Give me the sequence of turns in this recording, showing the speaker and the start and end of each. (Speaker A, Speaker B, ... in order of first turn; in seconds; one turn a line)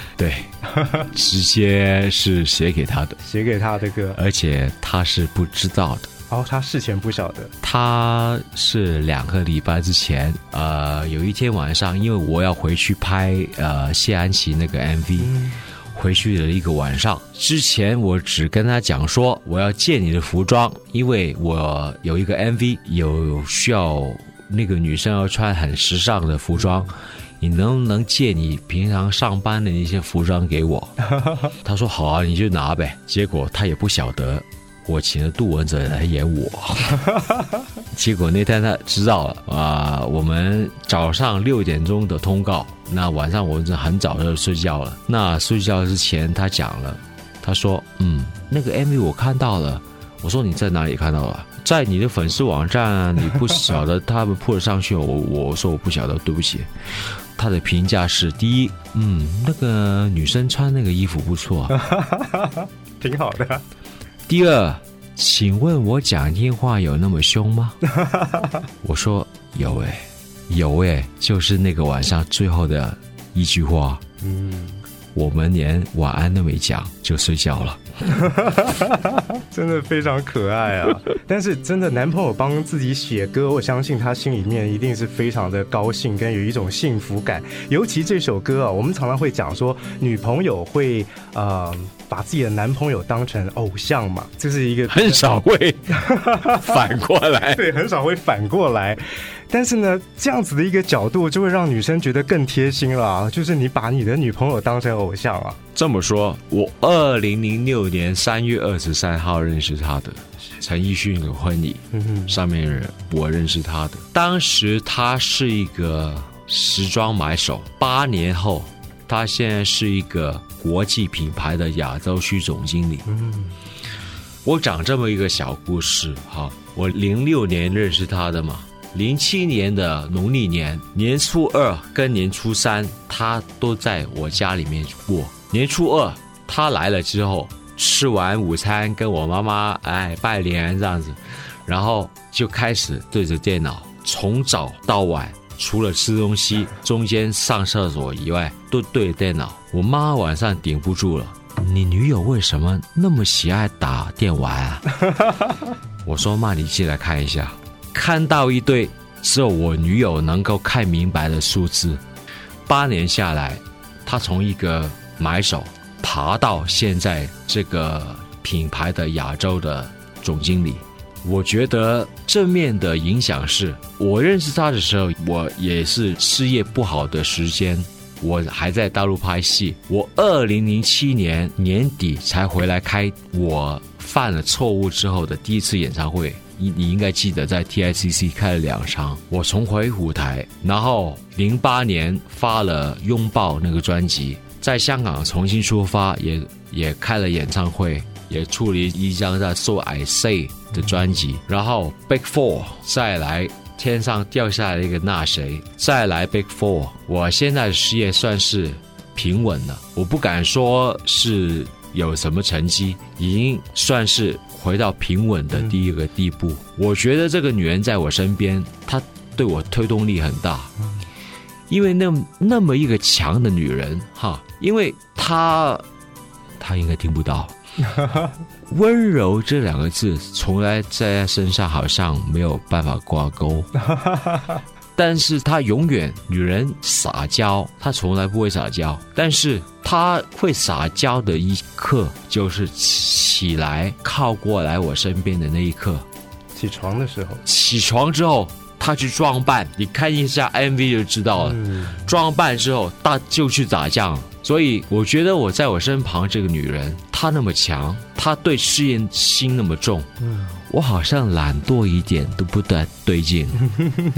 Speaker A: 0.2-0.5
Speaker B: 0.7-1.1
Speaker A: 1.1-3.2
Speaker B: 3.2-4.2
Speaker A: 4.2-6.1
Speaker B: 6.3-7.5
Speaker A: 7.6-15.3
Speaker B: 15.2-15.6
Speaker A: 15.9-30.9
Speaker A: 31.6-37.1
Speaker A: 37.9-56.7
Speaker A: 57.4-61.8
Speaker B: 61.7-63.6
Speaker A: 64.3-67.8
Speaker B: 67.9-68.6
Speaker A: 68.8-74.0
Speaker B: 74.2-74.8
Speaker A: 75.1-77.8
Speaker B: 78.1-95.2
Speaker A: 94.9-97.7
Speaker B: 95.9-96.8
Speaker B: 97.5-105.6
Speaker A: 105.8-123.1
Speaker B: 111.9-112.4
Speaker B: 123.1-123.5
Speaker A: 124.4-154.8
Speaker A: 156.1-162.0
Speaker A: 162.7-220.7
Speaker A: 221.7-225.8
Speaker A: 226.6-227.6
Speaker B: 227.9-228.3
Speaker A: 228.7-233.7
Speaker B: 233.9-234.6
Speaker A: 235.0-246.1
Speaker B: 246.6-247.4
Speaker A: 247.4-260.1
Speaker B: 251.4-252.1
Speaker B: 260.2-260.6
Speaker A: 260.7-263.6